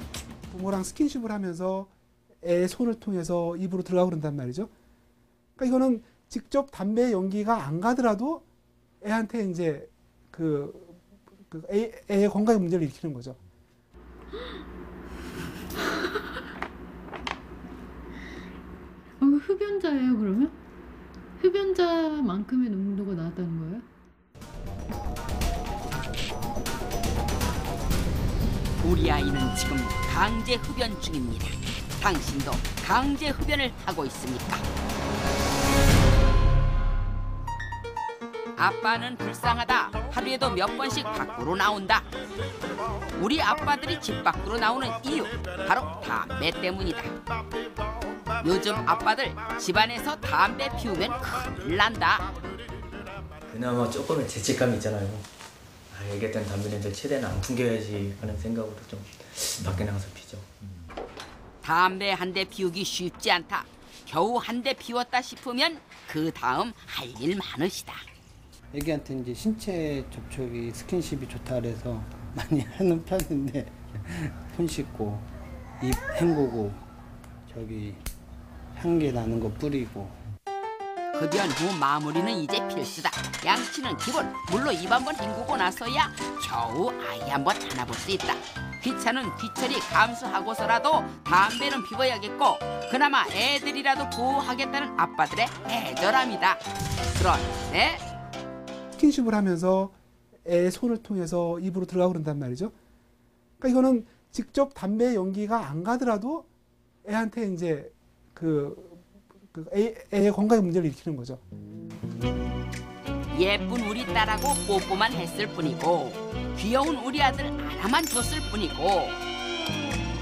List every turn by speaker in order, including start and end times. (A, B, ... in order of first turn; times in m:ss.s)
0:00.5-0:01.9 A
0:02.4-0:04.7 A
0:05.6-0:08.4 A
0:09.0-0:13.4 A
0:19.2-0:20.6 B
0:21.4-0:23.8 B
0:28.8-0:34.6 C
0:38.6-0:42.1 C
0:43.2-0:47.1 C
0:48.4-0:52.3 C
0:53.5-0:55.3 D
0:55.9-1:00.5 D
1:01.6-1:08.0 C
1:08.7-1:15.3 E
1:15.8-1:16.8 E
1:17.5-1:18.0 E
1:18.7-1:20.2 E
1:21.2-1:38.0 C
1:39.0-1:42.7 A
1:43.6-1:46.5 A
1:47.0-1:51.4 A
1:53.3-1:59.2 C